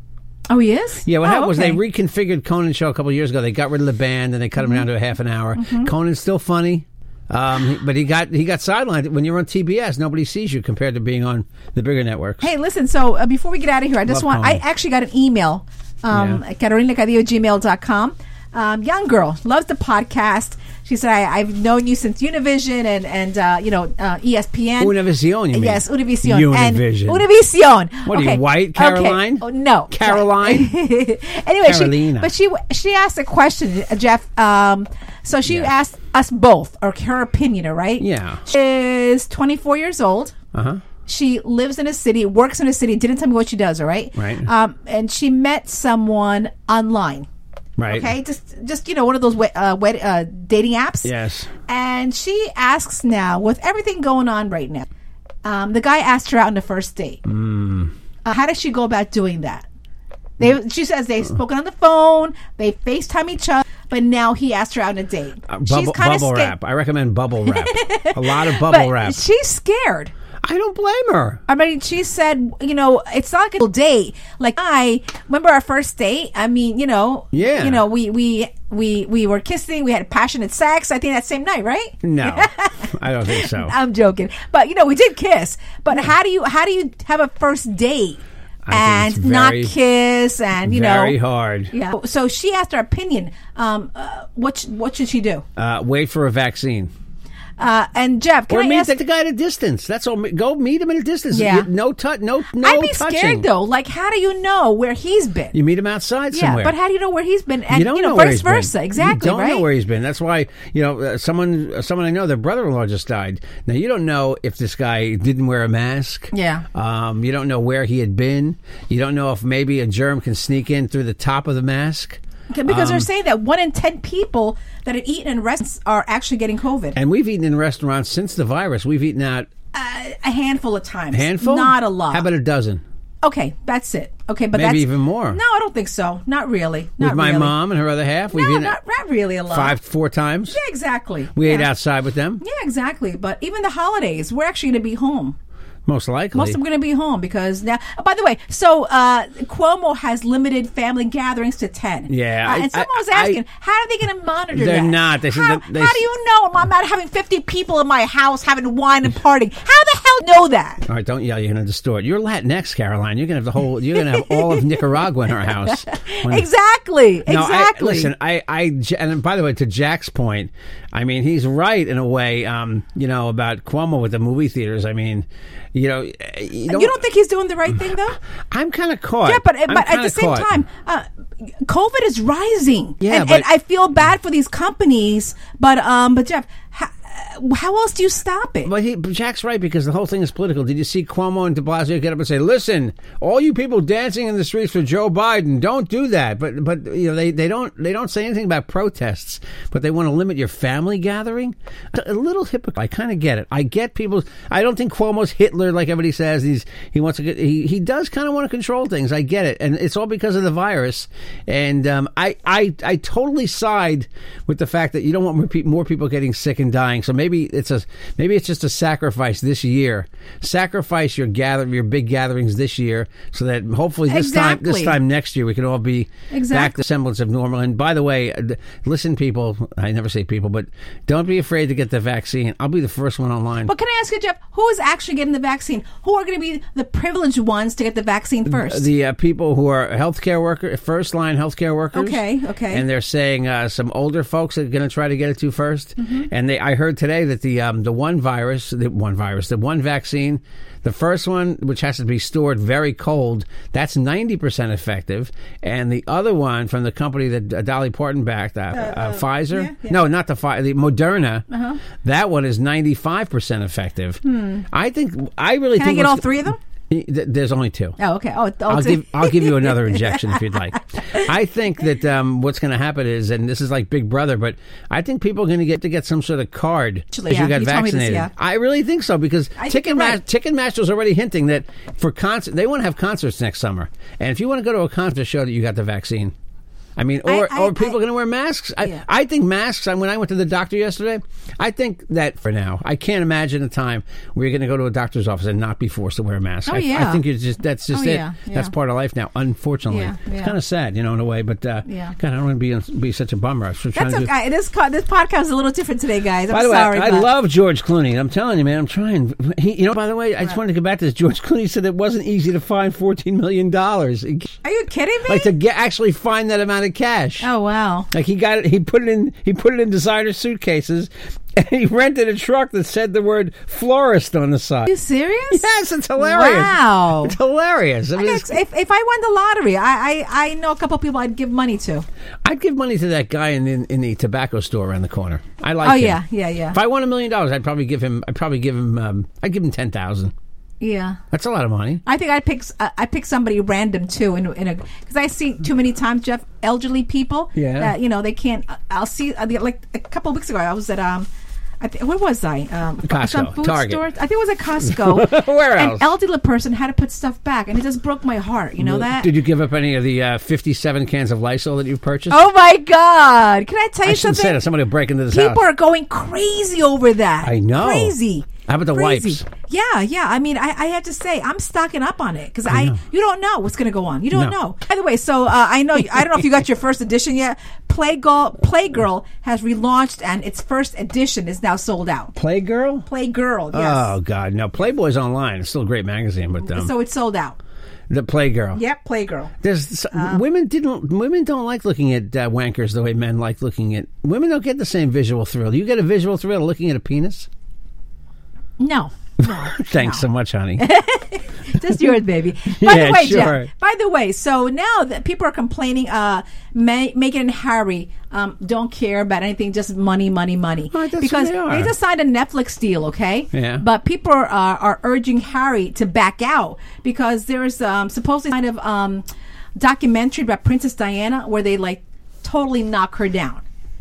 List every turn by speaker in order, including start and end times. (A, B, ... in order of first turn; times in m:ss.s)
0:00.5-0:01.8 A
0:01.0-0:12.5 B
0:04.6-0:04.8 A
0:05.5-0:05.9 A
0:12.4-0:25.0 A
0:14.1-0:14.6 B
0:16.1-0:16.4 B
0:24.8-0:27.2 B
0:25.5-0:40.3 A
0:28.0-0:30.7 B
0:31.6-0:32.3 B
0:38.0-0:38.4 B
0:40.5-0:40.8 B
0:41.0-0:47.3 A
0:44.1-0:44.5 B
0:47.8-0:48.1 B
0:47.9-0:51.1 A
0:51.0-0:51.5 B
0:51.7-0:54.9 A
0:55.4-0:57.2 A
0:57.2-0:57.9 B
0:58.2-0:59.6 A
1:00.4-1:06.5 A
1:05.5-1:09.2 B
1:07.5-1:10.1 A
1:10.4-1:11.4 B
1:11.5-1:28.2 A
1:17.3-1:17.8 B
1:22.0-1:23.7 B
1:28.6-1:29.7 B
1:28.7-1:31.2 A
1:30.6-1:31.7 B
1:31.7-1:35.4 A
1:35.6-1:36.9 B
1:37.6-1:38.9 A
1:38.5-1:43.5 B
1:41.3-1:41.7 A
1:42.6-1:45.6 A
1:45.5-1:46.7 B
1:46.3-1:49.6 A
1:47.7-2:03.1 B
1:56.3-1:56.6 A
2:02.5-2:07.0 A
2:06.9-2:09.5 B
2:09.7-2:12.3 A
2:11.1-2:12.8 B
2:13.2-2:17.6 A
2:14.5-2:15.4 B
2:17.0-2:18.8 B
2:18.3-2:19.8 A
2:19.5-2:20.6 B
2:20.5-2:21.7 A
2:21.3-2:22.4 B
2:22.4-2:25.4 A
2:25.8-2:26.6 B
2:26.3-2:40.8 A
2:32.1-2:33.4 B
2:34.5-2:36.0 B
2:40.9-2:46.5 B
2:44.0-2:44.8 A
2:45.5-2:48.1 A
2:47.2-2:57.0 B
2:56.7-2:58.2 A
2:58.5-3:00.5 B
2:59.2-3:01.0 A
3:01.6-3:08.7 A
3:03.0-3:03.5 B
3:08.6-3:53.7 B
3:44.1-3:45.0 A
3:46.3-3:46.7 A
3:53.6-3:58.9 A
3:58.4-4:28.0 B
4:01.9-4:02.8 A
4:06.0-4:06.3 A
4:18.7-4:20.0 A
4:21.5-4:21.8 A
4:24.2-4:24.6 A
4:25.8-4:26.6 A
4:28.0-4:31.2 A
4:28.7-4:46.3 B
4:37.1-4:38.3 A
4:39.6-4:40.2 A
4:47.0-5:04.3 B
4:47.2-4:48.0 A
4:56.6-4:57.2 A
4:57.9-4:58.7 A
4:59.9-5:00.5 A
5:01.8-5:02.1 A
5:03.9-5:07.3 A
5:06.5-5:14.6 B
5:14.6-5:15.5 A
5:15.3-5:17.5 B
5:17.4-5:18.1 A
5:18.1-5:24.9 B
5:24.8-5:25.6 A
5:25.5-5:28.6 B
5:26.2-5:27.4 A
5:28.2-5:32.0 A
5:32.4-5:40.3 B
5:35.8-5:36.8 A
5:40.8-5:41.2 A
5:41.3-5:42.0 B
5:42.0-5:51.3 A
5:47.6-5:47.9 B
5:51.8-5:59.3 A
5:53.0-5:54.0 B
5:54.8-5:56.0 B
5:58.8-6:02.5 B
6:02.3-6:04.6 A
6:04.0-6:05.6 B
6:05.3-6:22.3 A
6:07.4-6:09.4 B
6:12.7-6:13.0 B
6:22.4-6:23.1 B
6:23.0-6:24.1 A
6:23.7-6:26.9 B
6:26.6-6:27.6 A
6:28.1-6:28.8 B
6:28.7-6:29.5 A
6:29.6-6:37.5 B
6:30.1-6:30.4 A
6:38.8-6:40.2 A
6:39.4-6:40.8 B
6:40.8-6:59.2 A
6:42.7-6:43.7 B
6:50.9-6:51.9 B
6:53.5-6:53.8 B
6:59.8-7:03.6 A